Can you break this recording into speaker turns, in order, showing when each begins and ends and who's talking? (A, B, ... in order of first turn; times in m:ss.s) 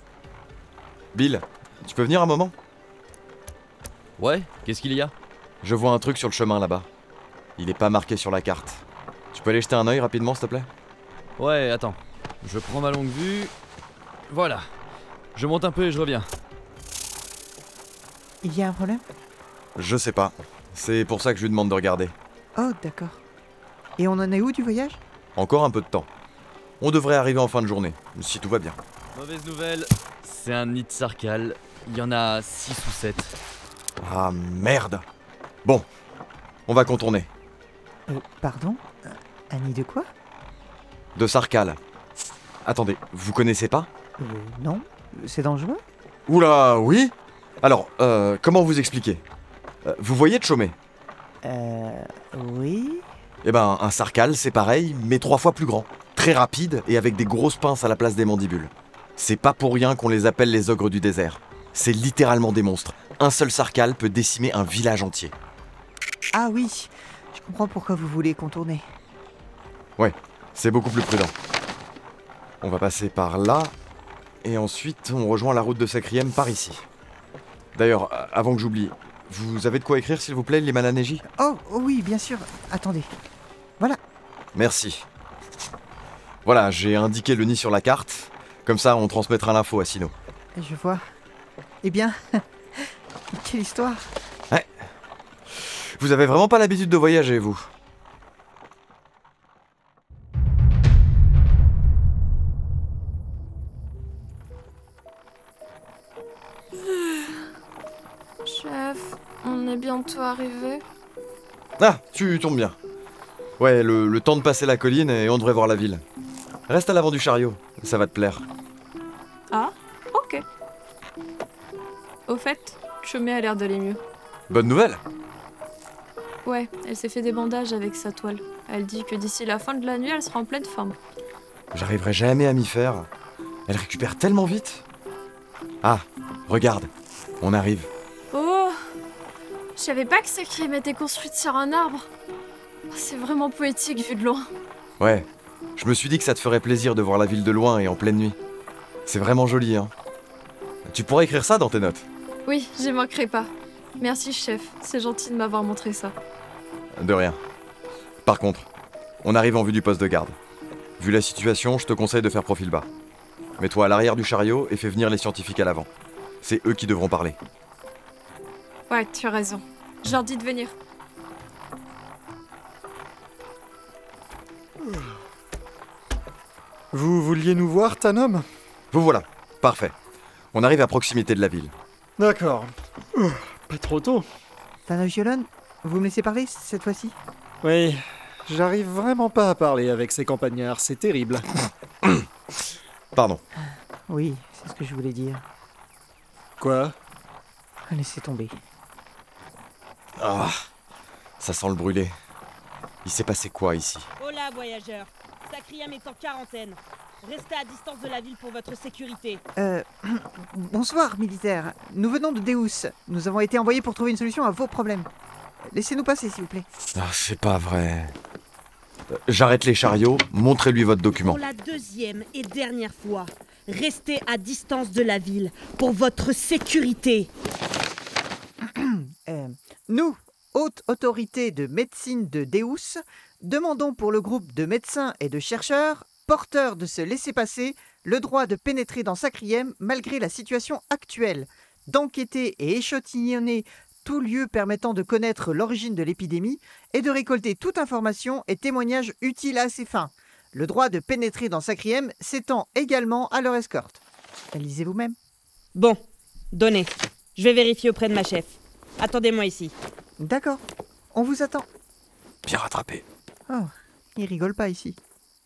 0:01.1-0:02.5 A
0:04.2-0:05.1 B
0:05.6-0:06.9 A
0:07.6-0:08.8 A
0:09.3-0:10.7 A
0:11.4-0:13.5 B
0:14.3-0:14.6 B
0:15.4-0:16.3 B
0:18.4-0:19.0 C
0:19.8-0:22.2 A
0:22.6-0:23.2 C
0:24.0-0:25.0 C
0:25.4-0:26.1 A
0:26.8-0:28.8 A
0:29.1-0:33.4 B
0:34.0-0:35.0 A
0:36.7-0:37.3 A
0:38.1-0:40.1 C
0:41.2-0:41.8 A
0:42.6-0:43.9 A
0:44.2-0:45.8 C
0:46.3-0:49.2 A
0:49.8-0:50.8 A
0:51.4-0:53.0 C
0:53.4-1:05.3 A
1:06.3-1:08.8 C
1:10.0-1:11.3 A
1:12.6-1:13.7 A
1:14.4-1:16.8 A
1:17.8-1:21.2 A
1:21.3-1:23.1 C
1:24.6-1:25.1 A
1:26.4-1:30.1 A
1:30.6-1:31.0 C
1:31.8-1:32.4 C
1:33.3-1:34.1 C
1:35.6-1:37.7 A
1:46.9-1:47.3 D
1:48.4-1:50.8 D
1:51.8-1:52.8 A
1:53.6-1:56.0 A
1:56.7-1:58.5 A
1:59.5-2:00.4 D
2:02.3-2:04.0 D
2:04.5-2:05.0 A
2:06.4-2:11.0 D
2:11.7-2:13.1 A
2:13.7-2:14.8 A
2:15.8-2:16.9 A
2:17.4-2:17.9 A
2:18.3-2:18.7 D
2:19.8-2:22.1 D
2:22.9-2:24.5 D
2:25.0-2:28.4 A
2:29.1-2:29.9 A
2:30.9-2:32.0 A
2:32.5-2:36.2 D
2:37.0-2:37.4 A
2:38.2-2:38.7 A
2:39.2-2:40.4 A
2:41.0-2:42.9 A
2:43.6-2:45.9 A
2:46.4-2:47.4 A
2:48.9-2:50.8 D
2:56.9-2:58.4 E
2:58.9-2:59.9 A
3:00.5-3:01.7 A
3:02.2-3:04.2 E
3:04.9-3:07.2 C
3:07.6-3:11.5 E
3:13.2-3:13.4 A
3:14.1-3:15.4 C
3:16.6-3:17.0 E
3:17.9-3:18.6 C
3:20.2-3:20.5 A
3:21.4-3:22.1 A
3:23.0-3:24.1 A
3:24.2-3:29.4 F
3:29.6-3:35.1 C
3:35.7-3:36.7 C
3:37.0-3:38.1 A
3:39.1-3:41.4 A
3:41.1-3:47.3 F
3:48.7-4:14.0 C
4:14.5-4:15.2 C
4:16.6-4:19.7 F
4:20.2-4:21.7 C
4:22.5-4:23.0 A
4:23.5-4:25.0 C